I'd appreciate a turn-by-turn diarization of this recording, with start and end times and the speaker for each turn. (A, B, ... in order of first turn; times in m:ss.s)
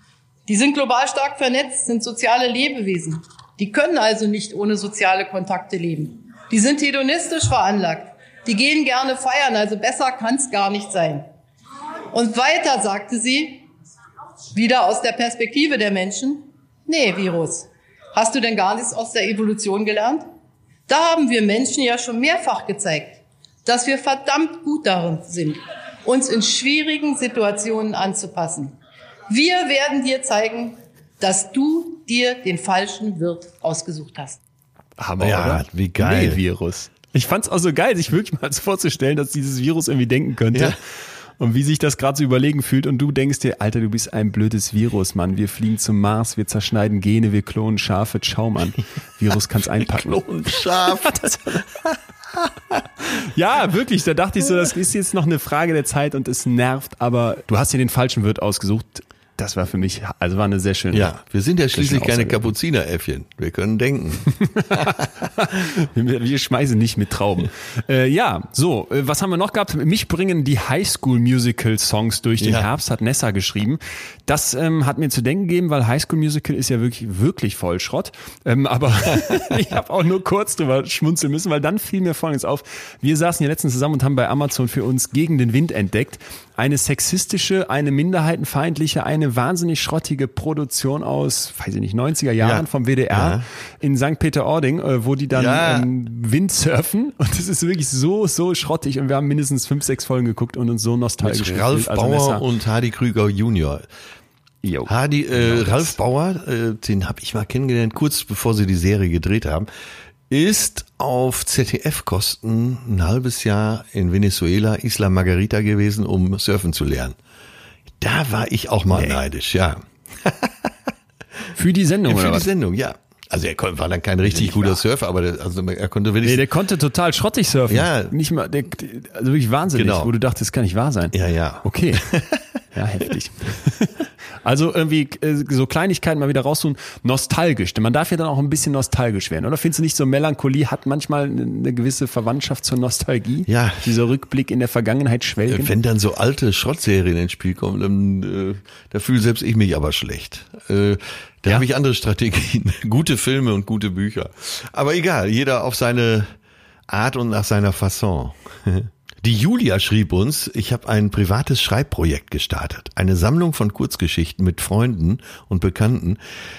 0:00.5-0:11.2 A
0:12.1-0:13.6 A
0:14.5-0:20.2 A
0:20.9-0:28.8 A
0:29.3-0:34.4 A
0:35.0-0:40.8 B
0:35.2-0:36.4 C
0:41.4-0:51.4 B
0:49.8-0:52.9 C
0:53.1-1:01.1 B
1:00.9-1:05.1 C
1:01.7-1:02.4 B
1:05.4-1:42.4 B
1:12.4-1:12.6 C
1:32.4-1:33.4 C
1:35.3-1:35.9 C
1:41.2-1:43.9 C
1:44.6-1:46.0 B
1:44.9-1:49.7 C
1:50.3-1:57.2 C
1:58.0-2:00.7 C
1:58.9-1:59.2 B
2:01.5-2:02.5 B
2:02.1-2:06.4 C
2:04.2-2:04.8 B
2:06.2-2:12.0 B
2:07.7-2:08.1 C
2:09.7-2:10.1 C
2:11.1-2:12.4 C
2:12.7-2:25.7 B
2:23.5-2:23.8 C
2:25.5-2:36.3 C
2:36.9-2:46.2 C